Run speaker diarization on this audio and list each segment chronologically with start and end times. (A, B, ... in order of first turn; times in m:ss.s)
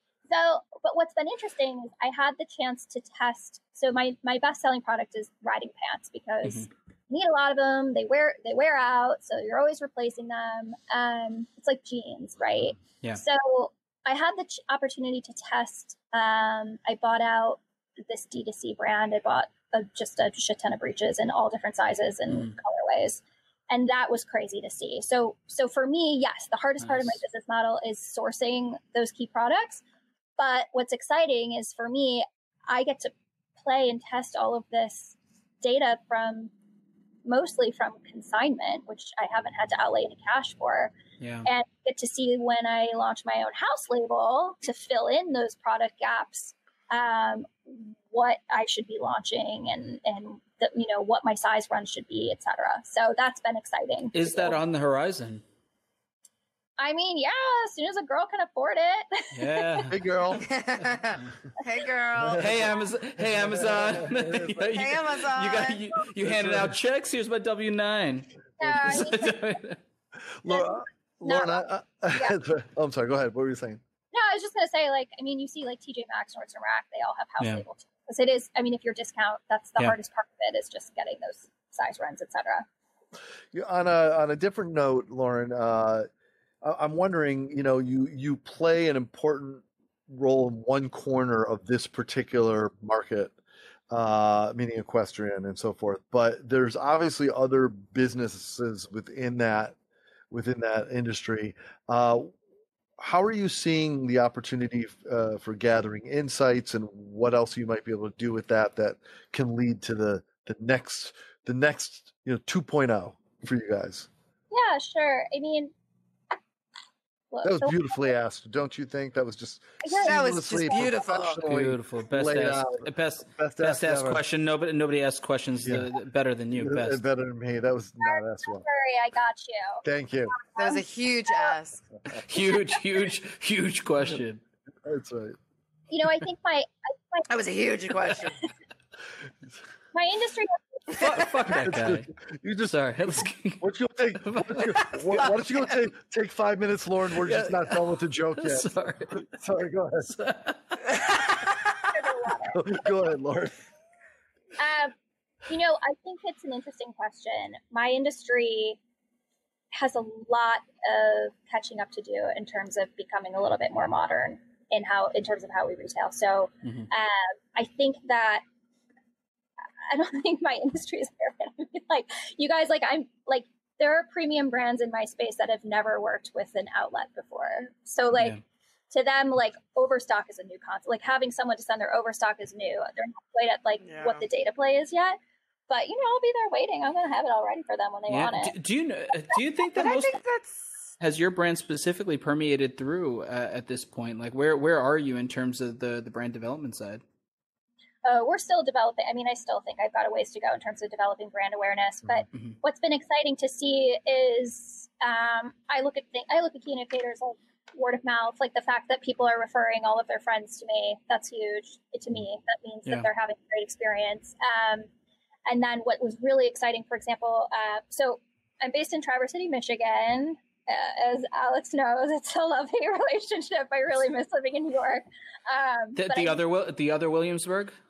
0:00.3-0:29.8 A
0:06.4-0:06.7 B
0:22.3-0:22.6 B
0:26.8-0:27.2 B
0:30.4-0:36.5 A
0:37.3-0:40.9 A
0:41.2-0:41.5 B
0:41.4-0:54.6 A
0:54.1-0:55.4 B
0:56.8-0:59.9 A
0:59.3-1:00.4 B
0:59.9-1:00.5 C
1:00.4-1:02.7 D
1:02.2-1:04.8 C
1:02.4-1:09.8 B
1:04.7-1:05.8 D
1:06.2-1:06.8 C
1:08.6-1:09.4 A
1:10.4-1:13.8 C
1:10.5-1:12.4 A
1:14.1-1:22.7 A
1:23.5-1:26.1 C
1:26.6-1:33.4 C
1:33.9-1:39.8 C
1:40.3-1:42.3 C
1:43.0-1:54.1 C
1:54.5-1:55.7 A
1:57.3-1:58.0 A
1:57.4-2:04.2 C
1:59.8-2:00.9 A
2:00.0-2:01.4 D
2:01.4-2:07.0 B
2:05.6-2:05.9 C
2:06.5-2:08.7 C
2:08.0-2:09.8 A
2:09.8-2:10.4 C
2:10.4-2:11.5 A
2:10.6-2:11.8 D
2:12.2-2:14.4 B
2:14.8-2:15.4 C
2:15.9-2:17.3 A
2:17.3-2:18.4 D
2:19.9-2:21.0 A
2:21.0-2:22.1 B
2:21.5-2:30.1 C
2:22.7-2:23.6 B
2:24.2-2:25.2 B
2:25.1-2:25.3 D
2:27.2-2:29.3 B
2:30.1-2:30.9 B
2:30.9-2:31.8 D
2:31.9-2:32.8 A
2:32.5-2:33.6 C
2:34.6-2:34.9 A
2:35.5-2:38.8 A
2:39.7-2:48.4 A
2:46.6-2:46.9 B
2:49.9-2:58.4 A
2:58.2-2:58.4 B
2:58.9-3:05.2 A
3:03.8-3:04.2 D
3:05.7-3:08.5 A
3:08.1-3:10.2 B
3:09.8-3:10.7 D
3:11.0-3:17.0 B
3:18.0-3:34.9 A
3:35.5-3:46.4 A
3:46.0-3:47.8 B